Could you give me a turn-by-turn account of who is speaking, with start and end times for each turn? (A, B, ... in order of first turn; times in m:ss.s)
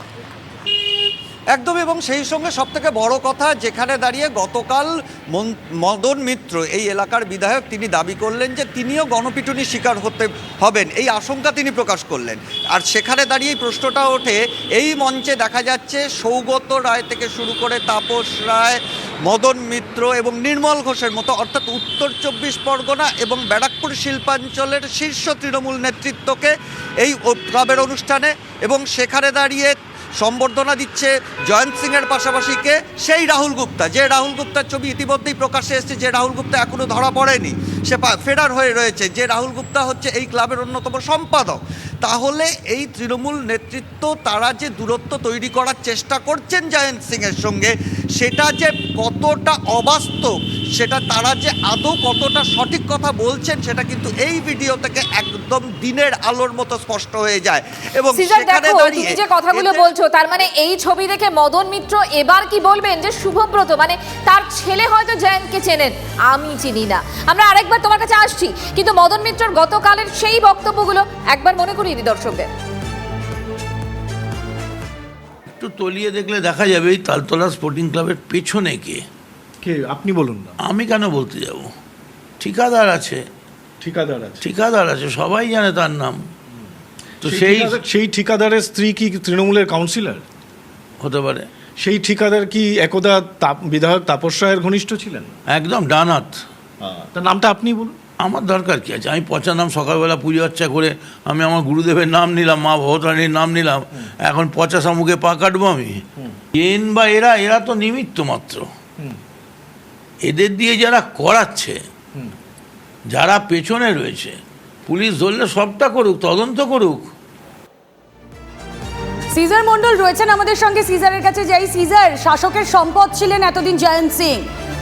0:01.5-0:59.9 A
0:58.1-1:12.5 B
1:15.6-1:19.0 C
1:19.6-1:20.6 D
1:20.6-1:21.7 C
1:22.4-1:23.2 C
1:23.8-1:24.4 D
1:24.4-1:26.2 C
1:27.2-1:27.8 C
1:27.2-1:30.2 D
1:31.0-1:31.5 C
1:31.8-1:35.3 D
1:35.5-1:36.4 C
1:36.8-1:38.0 D
1:38.2-1:46.0 C
1:46.5-1:48.7 C
1:50.2-1:51.8 C
1:53.1-1:57.1 C
1:59.3-2:04.4 E